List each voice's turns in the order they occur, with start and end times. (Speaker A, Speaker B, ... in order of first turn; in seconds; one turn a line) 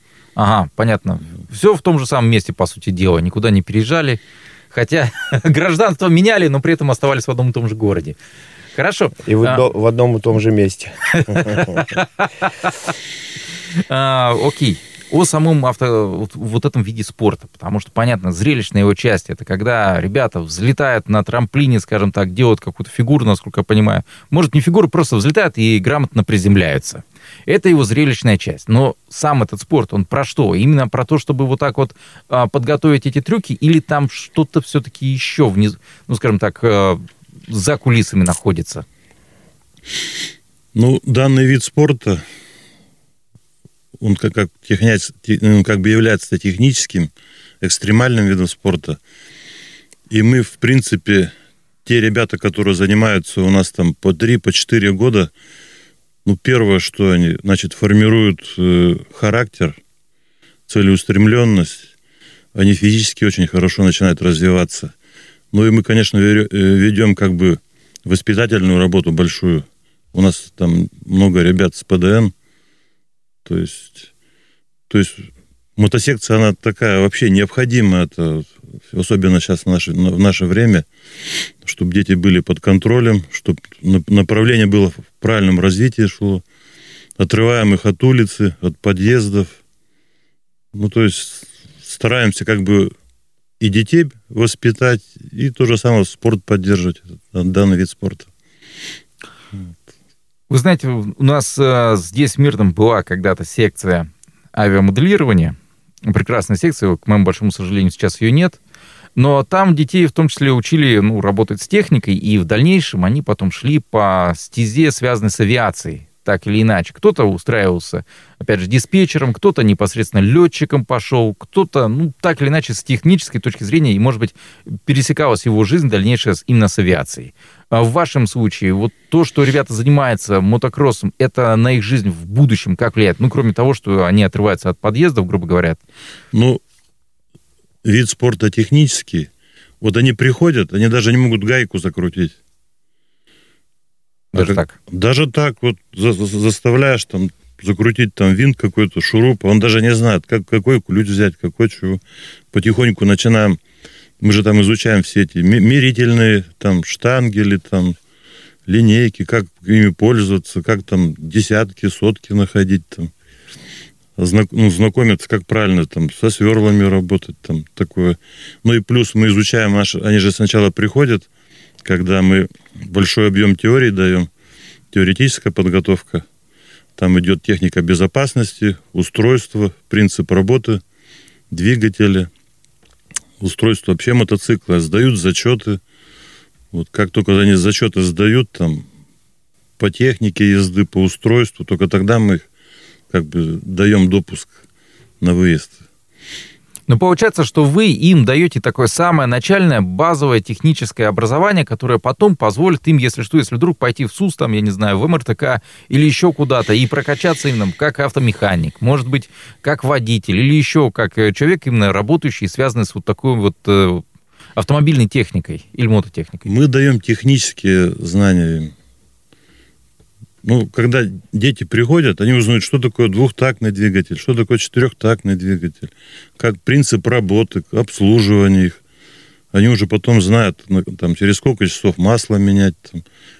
Speaker A: 0.4-8.2
Speaker A: 8.7-9.7
Speaker B: 9.2-11.9
Speaker A: 11.1-12.3
Speaker A: 13.7-38.9
Speaker C: 40.8-42.2
Speaker C: 44.0-47.1
Speaker C: 47.6-49.0
Speaker C: 50.1-51.3
Speaker C: 51.9-55.3
Speaker C: 56.2-59.8
Speaker C: 60.7-61.9
Speaker C: 62.5-64.9
Speaker C: 65.5-72.3
Speaker C: 73.4-74.1
Speaker C: 74.9-80.9
Speaker C: 81.6-86.4
Speaker C: 87.2-89.6
Speaker C: 90.7-92.9
Speaker C: 93.6-98.3
Speaker A: 100.5-108.6
Speaker A: 109.2-135.8
Speaker C: 136.3-136.6
Speaker C: 137.8-139.3
Speaker C: 139.8-142.4
Speaker A: 144.3-144.7
Speaker C: 144.3-153.6
Speaker C: 154.2-158.0
Speaker C: 158.7-163.1
Speaker C: 164.2-171.3
Speaker C: 171.8-174.3
Speaker C: 174.9-176.2
Speaker C: 177.0-180.8
Speaker C: 181.5-182.3
Speaker C: 183.4-185.8
Speaker C: 186.7-188.9
Speaker C: 189.8-192.5
Speaker C: 193.1-194.6
Speaker C: 195.2-195.8
Speaker A: 196.9-214.1
Speaker A: 214.6-216.4
Speaker C: 216.4-218.7
Speaker C: 220.4-228.8
Speaker C: 229.5-233.0